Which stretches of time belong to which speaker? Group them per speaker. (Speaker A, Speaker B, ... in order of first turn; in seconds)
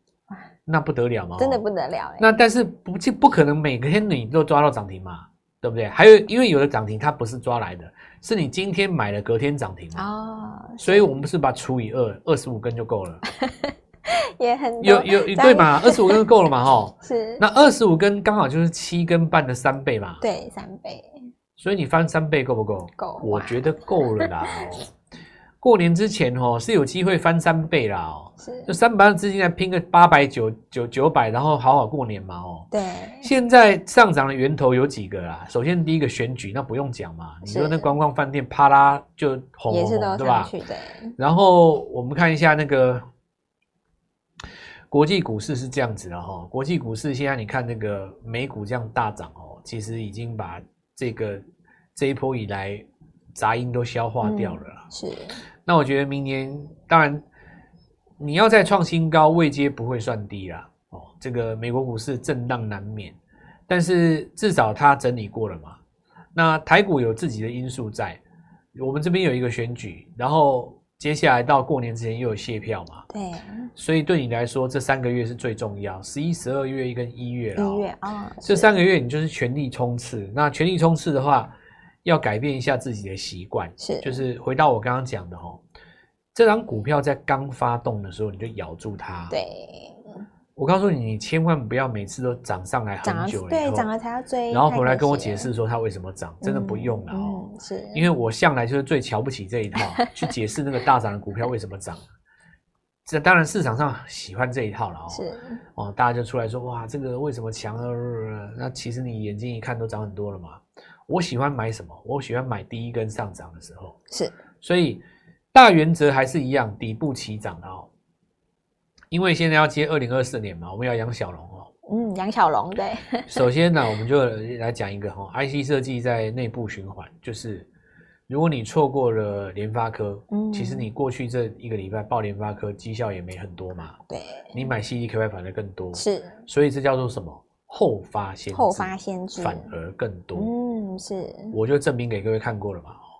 Speaker A: 0.7-1.6, 2.2-10.0, 10.8-13.2, 14.8-20.2, 21.6-24.9, 25.6-32.7, 33.2-40.5, 41.2-43.0, 44.9-51.4, 51.9-54.8, 55.6-57.2, 58.2-63.1, 63.7-65.8, 66.3-68.2, 68.7-73.0, 73.8-77.9, 78.4-81.5, 82.0-85.6, 86.3-89.4, 90.5-93.9, 94.5-102.0, 103.0-105.2, 105.8-114.0, 114.6-115.0, 115.5-117.9, 119.1-121.7, 123.3-127.7, 128.3-133.9, 134.5-140.5, 141.5-143.0
Speaker B: 1.4-2.3, 9.9-11.2, 13.4-16.2, 17.0-17.4, 20.2-21.2, 23.0-24.3, 28.4-28.7, 32.7-33.3, 37.4-37.9, 39.7-41.1, 54.2-55.4, 73.1-73.7, 77.5-78.7, 83.8-84.2, 89.3-90.2, 93.0-95.5, 96.4-98.1, 99.8-100.1, 105.1-105.6, 114.1-114.3, 121.9-123.4, 130.3-130.9, 134.1-134.7, 135.9-136.4, 138.5-139.7, 140.3-141.5